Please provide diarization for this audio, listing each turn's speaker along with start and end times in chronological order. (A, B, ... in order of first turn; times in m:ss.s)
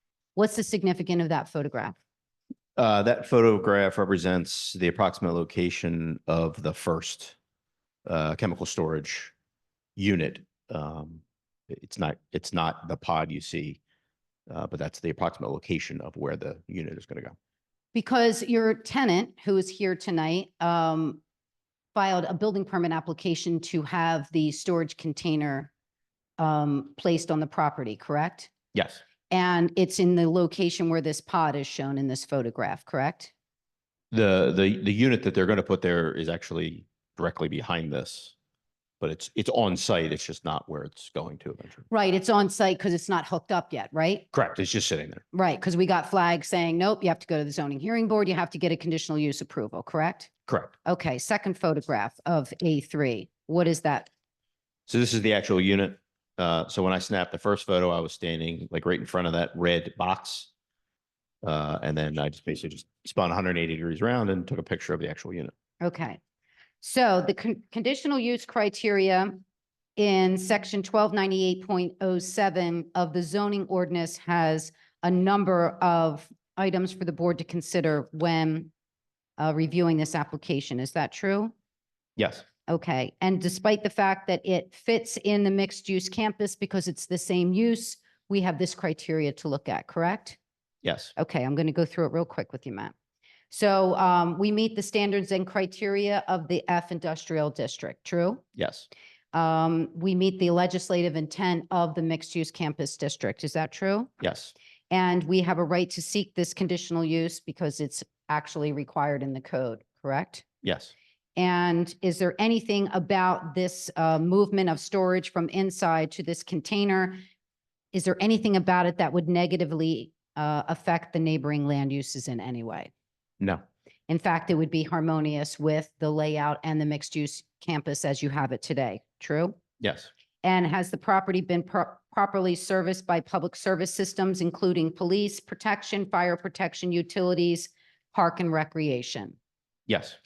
0:00.4-0:01.9 A
0:02.8-0:07.4 B
0:08.0-0:09.3 B
0:10.0-0:13.8 B
0:14.5-0:17.3 B
0:17.9-0:21.2 A
0:21.9-0:25.7 A
0:26.4-0:28.5 A
0:28.7-0:29.0 B
0:29.3-0:33.3 A
0:34.1-0:38.3 B
0:39.0-0:41.8 B
0:41.9-0:44.2 A
0:44.3-0:45.2 B
0:45.3-0:50.3 A
0:50.5-0:50.7 B
0:50.8-0:54.1 A
0:54.9-1:00.5 B
1:01.4-1:05.5 B
1:05.8-1:06.2 A
1:06.8-1:09.4 A
1:10.0-1:18.7 A
1:19.4-1:21.5 A
1:22.2-1:22.4 B
1:22.7-1:30.4 A
1:30.8-1:31.1 B
1:31.2-1:32.9 A
1:33.5-1:38.4 A
1:38.6-1:38.9 B
1:39.3-1:44.1 A
1:44.2-1:44.5 B
1:44.9-1:50.4 A
1:50.6-1:50.9 B
1:51.4-1:57.2 A
1:57.9-2:02.9 A
2:04.1-2:09.6 A
2:09.8-2:10.1 B
2:10.4-2:19.4 A
2:19.9-2:20.2 B